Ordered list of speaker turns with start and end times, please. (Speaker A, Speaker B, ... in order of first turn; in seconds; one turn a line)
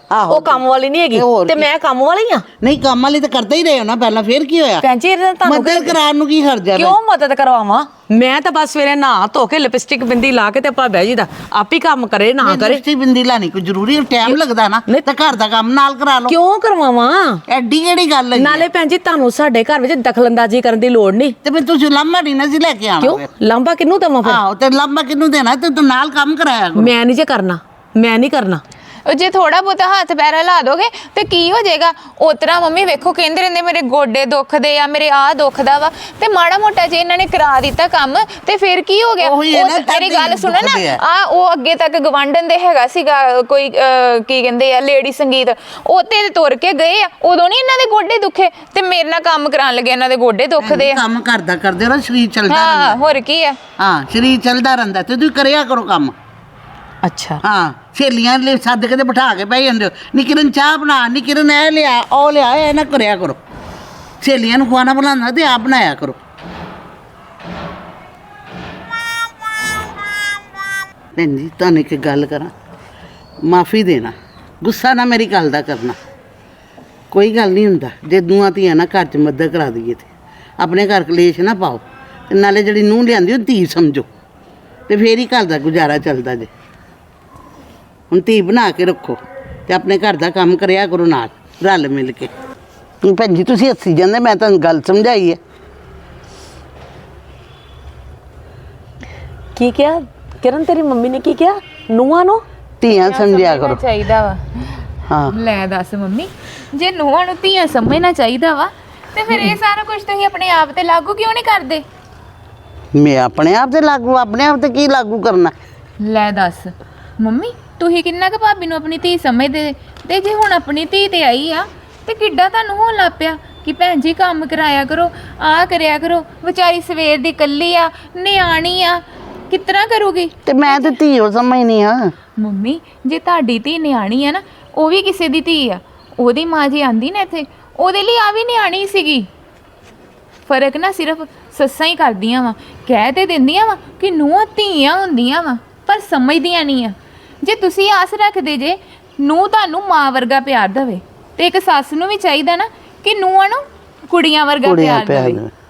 Speaker A: 0.1-1.7
Speaker B: 0.3-2.5
Speaker A: 2.6-4.8
Speaker B: 4.8-6.0
Speaker A: 5.5-7.0
Speaker B: 6.8-12.8
Speaker A: 12.4-16.4
Speaker B: 16.3-17.4
Speaker A: 17.5-18.7
Speaker B: 18.4-21.4
Speaker A: 21.4-23.3
Speaker B: 23.0-24.4
Speaker A: 24.2-26.9
Speaker B: 26.8-28.6
Speaker C: 29.1-51.0
Speaker A: 39.2-41.0
Speaker A: 50.6-53.0
Speaker C: 52.5-53.6
Speaker A: 53.8-56.1
Speaker B: 57.0-57.4
Speaker A: 57.4-63.4
Speaker A: 64.2-66.2
Speaker A: 71.2-72.5
Speaker A: 73.5-76.0
Speaker A: 77.1-80.1
Speaker A: 80.6-84.1
Speaker A: 84.9-86.5
Speaker A: 88.1-92.3
Speaker A: 93.0-95.4
Speaker B: 99.6-102.4
Speaker A: 102.8-103.8
Speaker C: 102.9-111.8
Speaker A: 105.1-105.3
Speaker B: 109.3-109.6
Speaker A: 113.0-115.5
Speaker C: 116.0-131.0
Speaker A: 130.5-132.1
Speaker C: 132.4-139.3
Speaker C: 140.5-155.4
Speaker A: 154.6-155.5